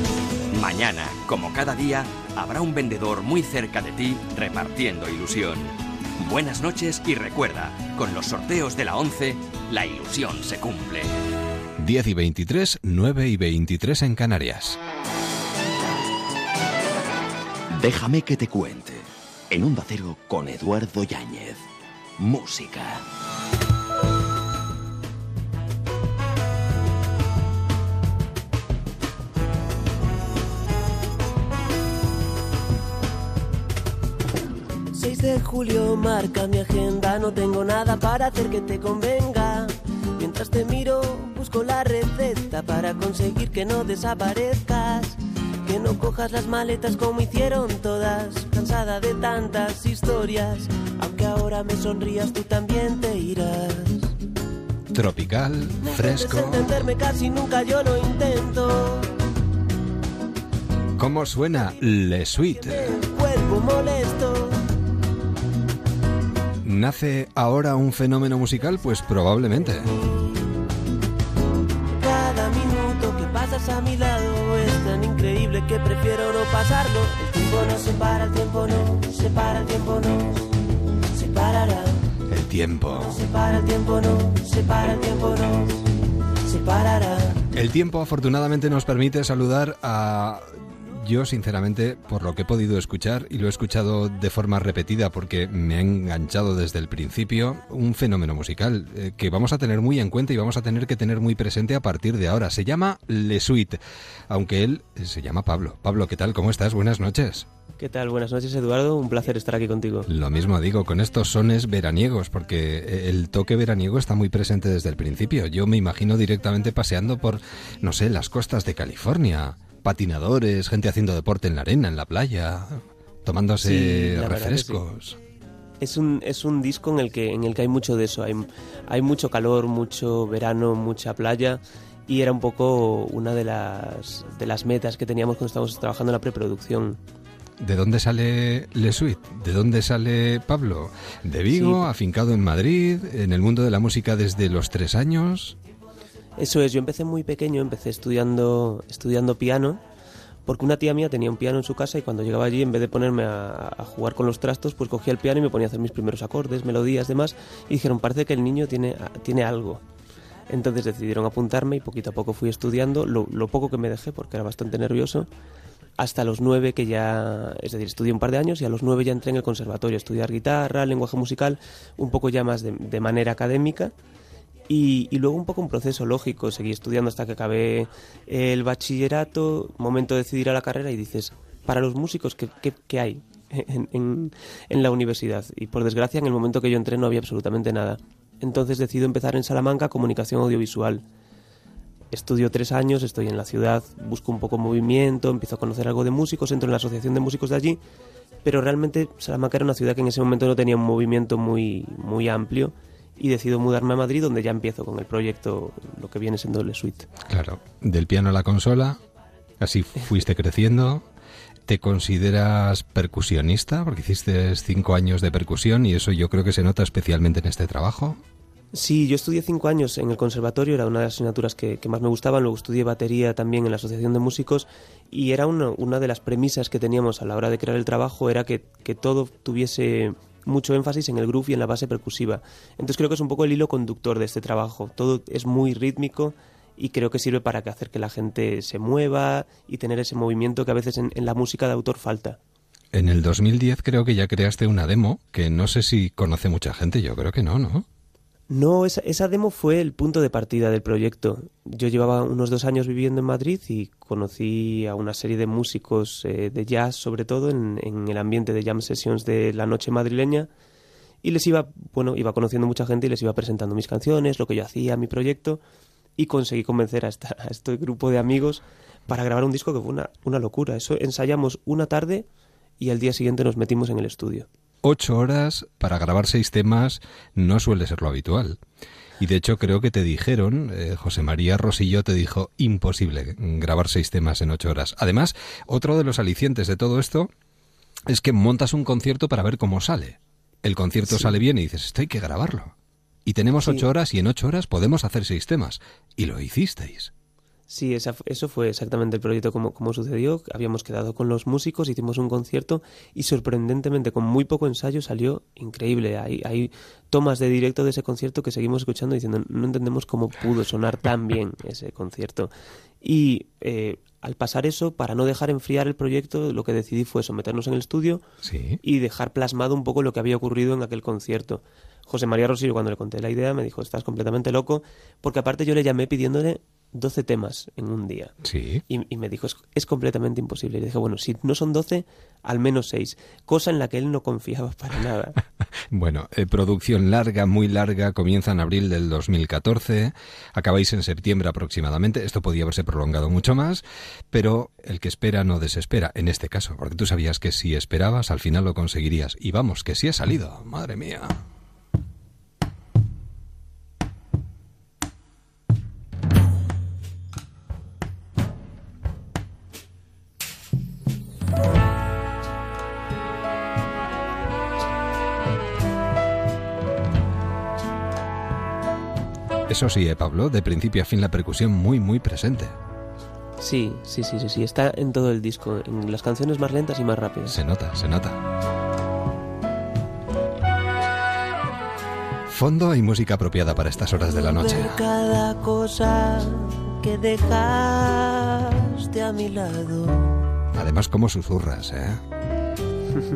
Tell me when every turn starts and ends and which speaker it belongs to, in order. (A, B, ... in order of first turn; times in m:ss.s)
0:00.5-0:11.2 A
0:11.8-0:14.8 B
0:17.7-0:21.7 C
0:22.2-0:23.0 C
0:34.9-0:54.1 D
0:54.9-0:56.9 B
0:55.8-0:59.1 D
1:01.0-1:02.9 B
1:02.6-1:04.6 D
1:06.6-1:09.9 B
1:11.9-1:20.5 D
1:21.1-1:22.0 D
1:22.3-1:23.2 B
1:22.9-1:25.8 D
1:26.4-1:27.4 D
1:27.5-1:47.5 B
1:47.8-1:50.1 E
1:50.1-2:05.2 B
2:03.6-2:04.8 E
2:05.8-2:17.0 E
2:17.6-2:25.6 B
2:21.5-2:21.9 E
2:26.4-2:29.8 E
2:30.5-2:39.8 E
2:40.5-2:45.3 E
2:46.0-2:53.9 E
2:54.7-3:11.0 E
3:12.1-3:17.8 E
3:18.4-3:27.1 E
3:27.3-3:29.0 B
3:29.6-3:31.1 B
3:31.7-3:38.2 B
3:38.7-4:02.4 E
4:02.9-4:07.9 B
4:08.5-4:20.5 E
4:21.2-4:25.6 E
4:26.2-4:32.3 E
4:32.8-4:34.5 E
4:34.8-4:38.6 B
4:39.2-4:47.3 B
4:48.1-4:52.8 B
4:51.1-4:51.4 E
4:53.3-4:57.1 B
4:57.7-5:18.2 E
5:18.4-5:18.8 B
5:18.8-5:28.3 E
5:28.4-5:28.8 B
5:28.9-5:35.4 E
5:35.9-5:51.4 B
6:09.7-6:12.8 B
6:13.6-6:17.6 E
6:17.5-6:18.4 B
6:22.5-6:25.0 B
6:24.4-6:30.4 D
6:30.7-6:32.2 B